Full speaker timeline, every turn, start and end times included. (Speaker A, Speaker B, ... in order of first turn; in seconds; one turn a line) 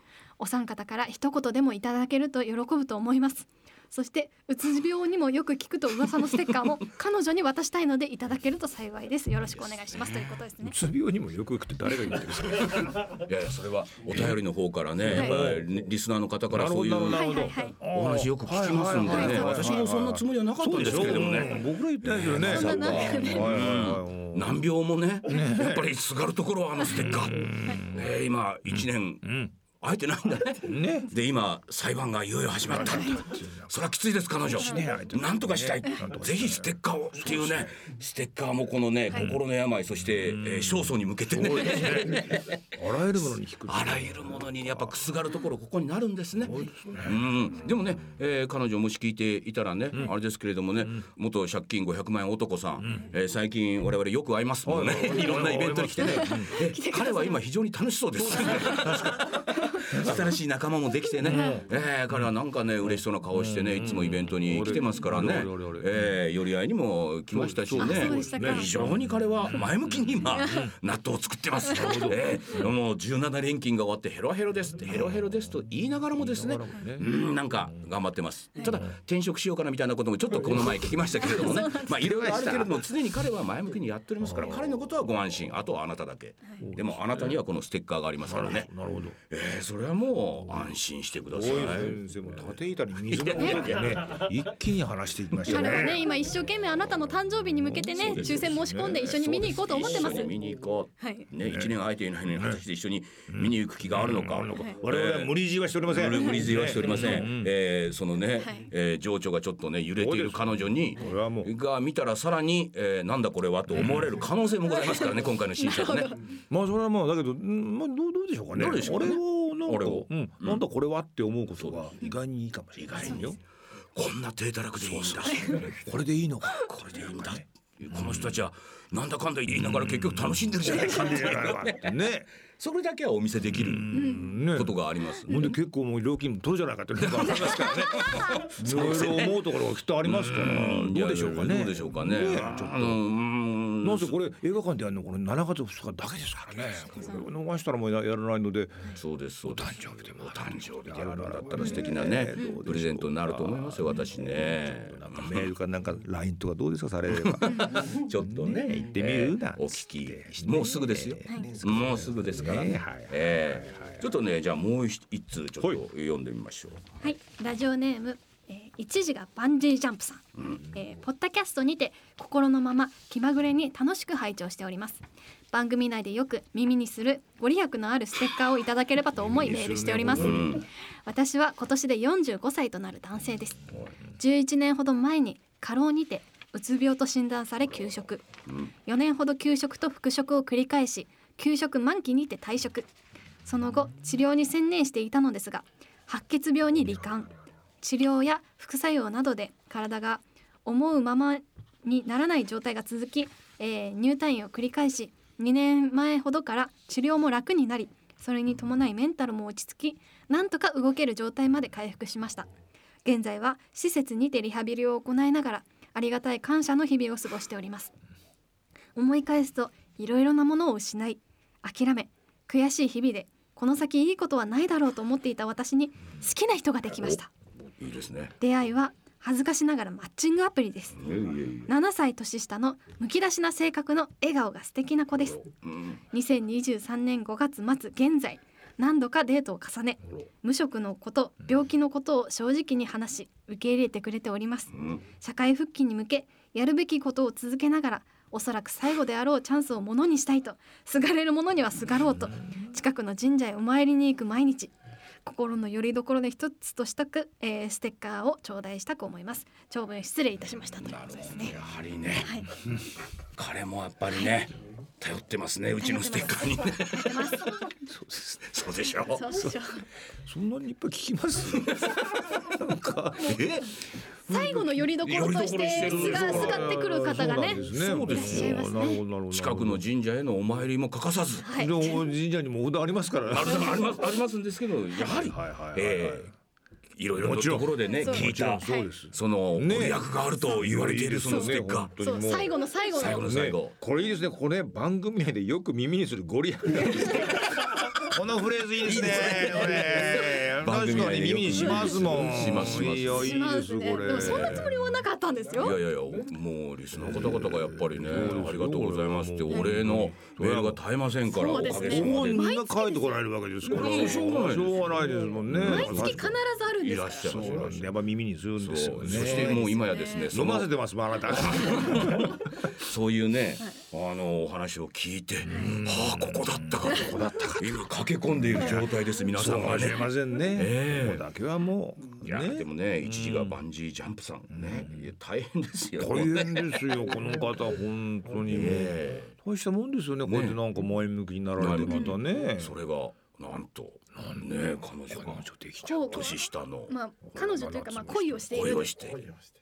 Speaker A: 0.4-10.8
Speaker B: 9.9-10.3
Speaker C: 10.6-13.0
Speaker B: 12.6-42.6
Speaker C: 14.1-14.4
Speaker C: 15.0-15.7
Speaker A: 15.1-15.4
Speaker C: 16.5-24.6
Speaker A: 17.1-17.8
Speaker A: 19.0-19.9
Speaker A: 22.4-23.8
Speaker C: 25.2-25.9
Speaker C: 26.9-28.0
Speaker C: 28.7-29.5
Speaker C: 30.6-31.1
Speaker C: 32.7-33.7
Speaker A: 32.8-33.2
Speaker C: 34.5-37.7
Speaker C: 40.2-44.9
Speaker B: 43.7-88.7
Speaker C: 46.4-47.2
Speaker C: 54.6-56.6
Speaker A: 56.0-57.4
Speaker C: 58.2-59.2
Speaker A: 58.5-59.0
Speaker C: 59.9-60.3
Speaker C: 61.2-62.3
Speaker A: 61.3-61.6
Speaker C: 63.3-66.0
Speaker C: 67.3-70.7
Speaker A: 67.8-68.7
Speaker A: 70.4-70.7
Speaker C: 71.6-72.3
Speaker A: 71.7-72.1
Speaker C: 74.9-75.4
Speaker C: 76.1-77.1
Speaker A: 81.2-82.4
Speaker C: 81.4-82.8
Speaker C: 84.2-84.7
Speaker C: 86.6-87.4
Speaker C: 88.2-89.2
Speaker B: 89.3-92.0
Speaker C: 91.2-96.1
Speaker B: 93.0-94.2
Speaker A: 93.4-93.7
Speaker A: 95.4-100.3
Speaker C: 97.6-99.2
Speaker B: 98.0-116.2
Speaker A: 101.0-101.3
Speaker C: 101.4-101.7
Speaker C: 102.3-102.6
Speaker C: 103.3-107.5
Speaker A: 104.5-104.8
Speaker A: 106.2-107.2
Speaker A: 108.4-108.7
Speaker C: 110.0-111.5
Speaker C: 113.7-114.1
Speaker A: 114.8-115.1
Speaker A: 115.6-116.2
Speaker C: 116.5-123.4
Speaker B: 118.5-120.6
Speaker B: 121.6-122.0
Speaker B: 122.8-123.4
Speaker B: 123.9-125.9
Speaker C: 124.8-128.3
Speaker B: 126.6-132.0
Speaker C: 129.5-132.3
Speaker B: 132.6-135.5
Speaker C: 133.5-143.0
Speaker A: 133.9-134.3
Speaker B: 137.0-144.2
Speaker A: 137.5-138.4
Speaker C: 143.8-164.0
Speaker A: 146.9-147.2
Speaker B: 148.9-155.5
Speaker A: 151.6-151.8
Speaker A: 152.4-152.6
Speaker B: 157.1-167.0
Speaker A: 157.5-157.8
Speaker A: 167.0-188.2
Speaker C: 179.3-180.5
Speaker B: 180.1-180.7
Speaker A: 188.8-192.9
Speaker A: 193.4-212.5
Speaker A: 213.0-217.9
Speaker A: 218.9-227.3
Speaker B: 227.8-228.3
Speaker A: 228.4-231.1
Speaker B: 231.0-231.7
Speaker A: 231.7-235.5
Speaker B: 235.6-236.0
Speaker A: 236.1-254.7
Speaker B: 244.7-245.0
Speaker A: 255.2-261.6
Speaker B: 260.8-262.3
Speaker A: 262.2-262.5
Speaker B: 263.4-267.5
Speaker A: 265.8-267.8
Speaker C: 267.8-268.5
Speaker B: 268.5-269.3
Speaker A: 269.1-269.8
Speaker C: 269.3-269.6
Speaker C: 270.2-273.5
Speaker B: 271.5-272.6
Speaker B: 273.2-278.8
Speaker A: 274.3-279.0
Speaker C: 274.3-274.7
Speaker C: 275.8-279.8
Speaker B: 279.3-282.0
Speaker A: 281.4-282.0
Speaker C: 281.5-283.8
Speaker B: 283.3-286.3
Speaker C: 285.1-286.3
Speaker B: 286.9-291.9
Speaker C: 287.2-304.8
Speaker A: 287.9-288.9
Speaker A: 291.2-293.2
Speaker B: 292.9-293.8
Speaker B: 296.9-297.8
Speaker B: 298.8-303.3
Speaker A: 301.6-301.9
Speaker A: 303.1-305.8
Speaker B: 304.2-304.7
Speaker B: 305.6-312.5
Speaker C: 306.9-310.8
Speaker A: 311.3-313.2
Speaker C: 311.5-316.3
Speaker B: 313.6-317.9
Speaker A: 315.6-317.4
Speaker C: 317.2-319.7
Speaker B: 318.6-320.7
Speaker A: 319.2-320.3
Speaker C: 320.3-322.4
Speaker B: 321.3-331.2
Speaker C: 325.4-327.9
Speaker A: 325.5-325.8
Speaker C: 328.4-333.6
Speaker B: 332.2-337.1
Speaker C: 334.5-335.1
Speaker C: 335.9-342.8
Speaker B: 338.5-339.3
Speaker B: 340.3-340.6
Speaker B: 341.6-346.9
Speaker A: 341.9-342.1
Speaker C: 344.2-346.0
Speaker A: 345.8-348.9
Speaker C: 347.2-348.6
Speaker B: 348.5-349.4